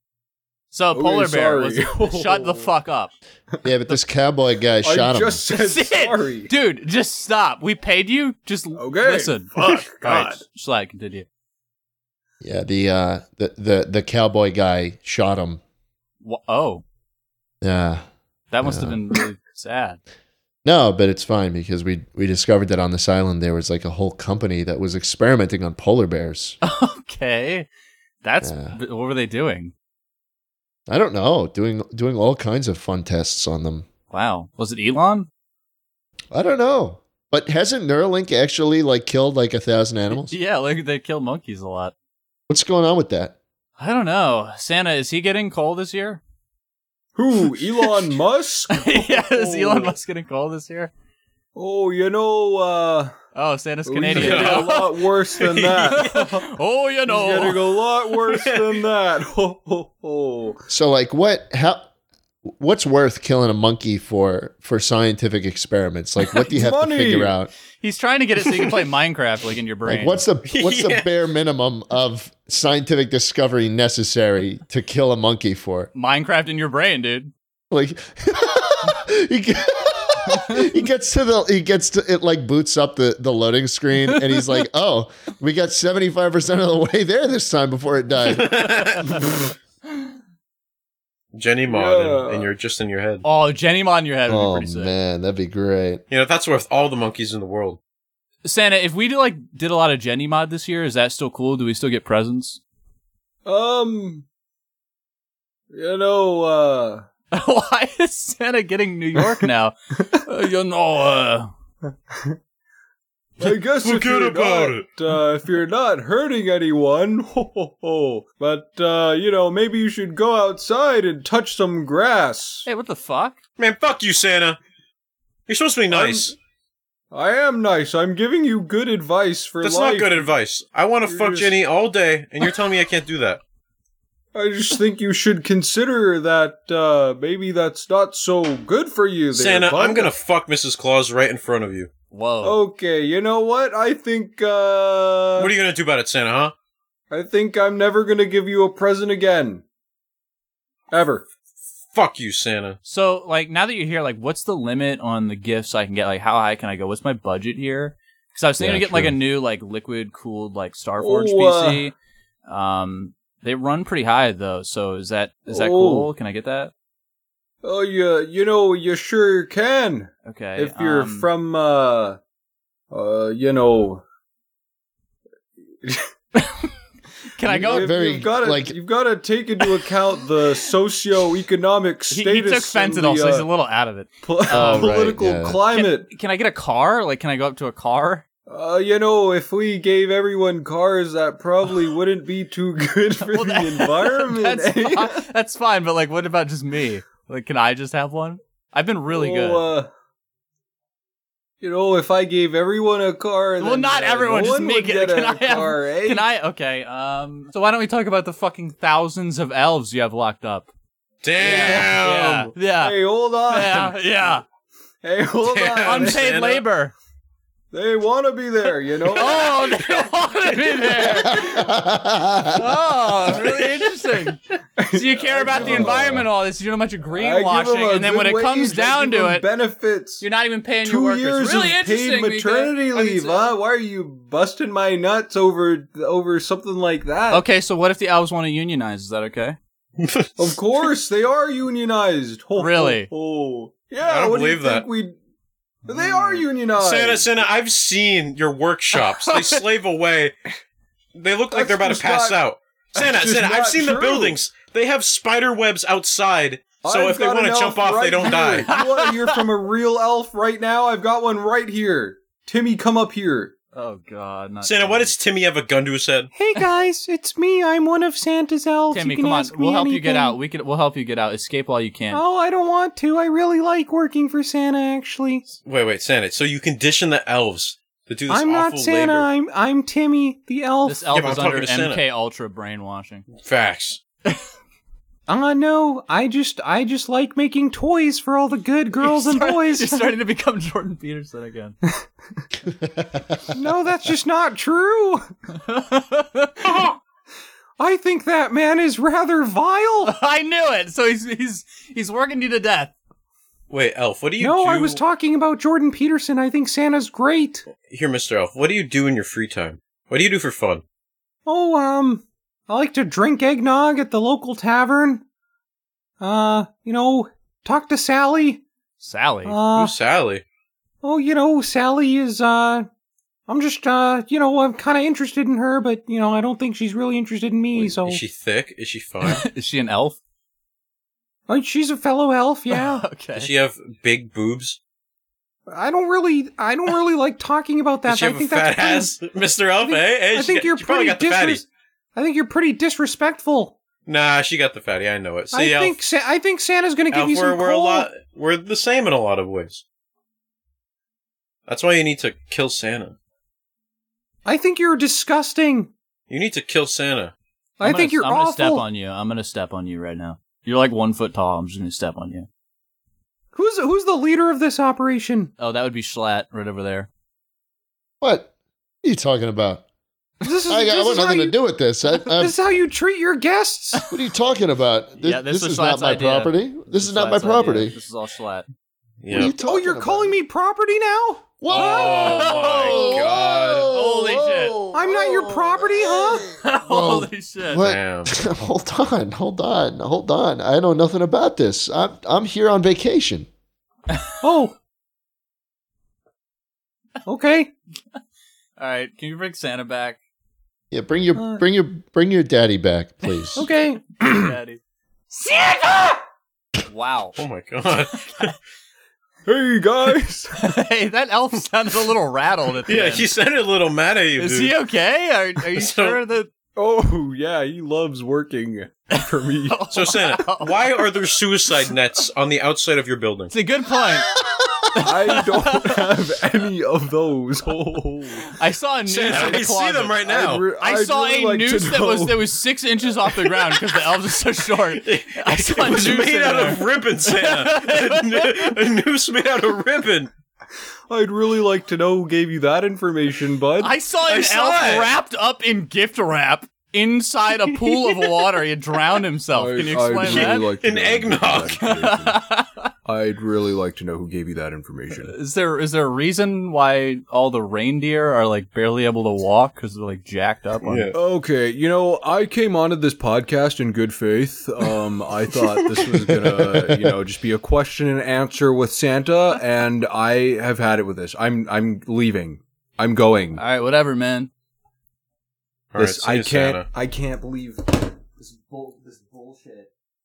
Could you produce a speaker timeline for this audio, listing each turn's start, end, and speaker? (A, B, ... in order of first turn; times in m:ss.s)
0:00.7-0:03.1 A
0:00.9-0:02.7 B
0:03.6-0:05.4 C
0:04.8-0:06.5 B
0:05.5-0:11.3 A
0:08.8-0:10.4 B
0:12.4-0:15.6 C
0:16.2-0:16.8 A
0:17.6-0:18.0 C
0:18.5-0:20.0 A
0:18.6-0:19.2 C
0:20.6-0:26.6 C
0:26.6-0:27.7 A
0:28.2-0:29.7 A
0:28.4-0:28.8 C
0:30.9-0:33.9 C
0:34.1-0:35.3 A
0:36.3-0:40.4 C
0:40.1-0:41.9 A
0:42.5-0:43.4 C
0:43.8-0:46.2 A
0:47.2-0:50.0 B
0:48.7-0:50.9 A
0:51.6-0:53.2 B
0:53.4-0:57.7 A
0:53.8-0:56.5 B
0:54.1-0:54.7 D
0:55.4-0:56.2 D
0:57.0-1:00.6 B
0:58.3-0:58.8 D
1:00.7-1:01.8 C
1:02.4-1:07.5 C
1:06.5-1:07.4 B
1:07.8-1:10.3 A
1:09.9-1:15.9 C
1:10.4-1:11.1 D
1:15.9-1:17.3 A
1:17.7-1:29.1 C
1:28.2-1:29.2 D
1:31.3-1:33.2 D
1:31.7-1:32.5 B
1:33.2-1:34.9 A
1:34.3-1:36.0 C
1:36.1-1:37.8 D
1:38.4-1:42.6 A
1:43.4-1:44.3 B
1:45.7-1:47.1 B
1:47.3-1:51.5 A
1:53.4-1:54.9 D
1:53.4-2:02.7 B
2:02.7-2:03.4 A
2:03.6-2:04.6 D
2:05.5-2:06.3 D
2:05.9-2:06.4 B
2:07.1-2:10.3 B
2:09.6-2:13.4 D
2:11.1-2:11.6 B
2:14.3-2:20.1 B
2:19.3-2:21.9 D
2:22.1-2:22.6 A
2:22.4-2:25.5 B
2:25.4-2:26.5 D
2:27.1-2:29.6 B
2:30.9-2:31.2 B
2:32.0-2:32.8 D
2:32.9-2:41.9 A
2:38.6-2:39.2 C
2:41.0-2:41.8 B
2:42.5-2:46.7 A
2:45.5-2:46.1 B
2:47.6-2:52.2 B
2:50.2-2:51.3 A
2:50.6-2:51.3 E
2:52.9-2:54.0 B
2:56.4-2:56.7 A
2:57.3-2:57.9 A
2:57.4-3:03.5 B
2:57.5-2:58.8 C
3:02.1-3:05.1 A
3:04.2-3:06.1 B
3:04.5-3:05.6 C
3:05.7-3:08.2 A
3:08.5-3:15.2 B
3:13.2-3:19.7 A
3:19.1-3:19.9 B
3:21.6-3:26.3 B
3:23.6-3:30.7 A
3:31.2-3:32.5 D
3:31.4-3:34.4 A
3:31.4-3:32.0 B
3:32.8-3:34.0 B
3:35.0-3:36.3 B
3:35.4-3:36.6 D
3:35.8-3:36.9 A
3:37.7-3:39.9 B
3:39.1-3:41.7 A
3:40.7-3:41.6 B
3:41.1-3:42.8 C
3:42.5-3:44.4 A
3:43.3-3:44.3 D
3:44.8-3:46.3 B
3:44.9-3:49.5 A
3:45.6-3:45.9 E
3:47.1-3:50.2 B
3:50.2-3:53.6 A
3:50.8-3:57.5 B
3:57.3-3:59.6 A
4:00.0-4:00.6 D
4:00.4-4:05.2 B
4:02.6-4:03.1 A
4:04.0-4:04.9 D
4:05.9-4:07.5 B
4:05.9-4:06.5 A
4:06.8-4:10.4 D
4:09.0-4:09.6 A
4:11.1-4:18.7 D
4:11.5-4:12.4 B
4:13.0-4:14.4 B
4:16.8-4:23.5 B
4:18.6-4:19.4 A
4:23.7-4:25.1 A
4:24.6-4:26.3 D
4:26.3-4:30.4 E
4:28.9-4:32.2 A
4:32.1-4:35.5 E
4:35.6-4:39.3 D
4:38.3-4:41.0 E
4:40.8-4:43.3 A
4:41.1-4:42.0 D
4:43.3-4:44.0 D
4:45.3-4:50.1 E
4:49.0-4:51.8 A
4:52.7-4:53.4 C
4:53.5-4:55.3 E
4:55.6-4:56.8 A
4:56.6-4:57.0 D
4:57.8-5:00.2 E
5:00.0-5:02.9 A
5:03.7-5:05.0 D
5:04.4-5:07.7 E
5:07.8-5:10.8 D
5:11.5-5:15.2 E
5:16.2-5:18.6 E
5:19.0-5:19.6 A
5:19.4-5:19.9 E
5:19.7-5:20.4 D
5:21.0-5:22.9 E
5:23.5-5:28.2 E
5:27.7-5:29.4 D
5:29.2-5:30.2 A
5:31.5-5:33.0 E
5:32.7-5:33.5 A
5:33.4-5:34.8 D
5:35.7-5:39.1 E
5:38.0-5:41.6 D
5:39.8-5:41.6 E
5:42.2-5:43.8 E
5:44.1-5:46.0 D
5:45.5-5:48.1 E
5:47.1-5:49.8 D
5:51.7-5:53.2 D
5:54.4-5:55.9 E
5:56.3-5:57.3 D
5:57.8-5:58.9 E
5:57.8-6:02.5 A
6:03.5-6:05.5 E
6:05.6-6:07.1 A
6:08.2-6:08.5 C
6:09.0-6:09.8 C
6:10.4-6:11.6 E
6:10.7-6:12.6 C
6:12.2-6:14.1 E
6:14.1-6:18.0 C
6:15.2-6:18.7 A
6:19.2-6:19.5 D
6:19.3-6:20.4 C
6:19.6-6:21.5 E
6:21.6-6:33.5 C
6:21.7-6:24.0 D
6:21.7-6:24.9 A
6:24.9-6:26.5 E
6:26.5-6:27.9 A
6:27.8-6:28.3 D
6:34.4-6:34.8 E
6:37.2-6:37.7 E
6:38.8-6:40.2 A
6:40.9-6:43.7 C
6:41.4-6:41.6 E
6:43.4-6:43.7 A
6:43.6-6:44.5 E
6:44.2-6:44.8 A
6:45.4-6:46.1 A
6:46.8-6:47.4 A
6:47.4-6:48.6 D
6:49.5-6:50.8 B
6:50.5-6:53.3 A
6:52.9-6:54.8 D
6:54.4-6:56.5 A
6:55.7-6:56.2 D
6:56.8-7:00.0 B
6:59.1-7:00.9 A
6:59.9-7:03.5 D
7:03.5-7:06.1 A
7:05.0-7:08.6 B
7:08.5-7:10.2 A
7:09.1-7:10.7 D
7:09.3-7:09.6 B
7:10.2-7:12.6 B
7:10.8-7:18.8 A
7:14.9-7:20.3 D
7:21.1-7:24.0 B
7:23.8-7:30.7 A
7:24.2-7:25.1 D
7:29.5-7:32.4 B
7:30.0-7:31.8 D
7:31.7-7:32.9 A
7:33.0-7:35.3 B
7:35.2-7:41.1 A
7:40.8-7:41.2 D
7:41.1-7:53.6 B
7:45.8-7:46.2 D
7:53.6-7:54.5 A
7:55.9-7:56.9 D
7:56.0-7:57.8 E
7:57.1-7:59.9 B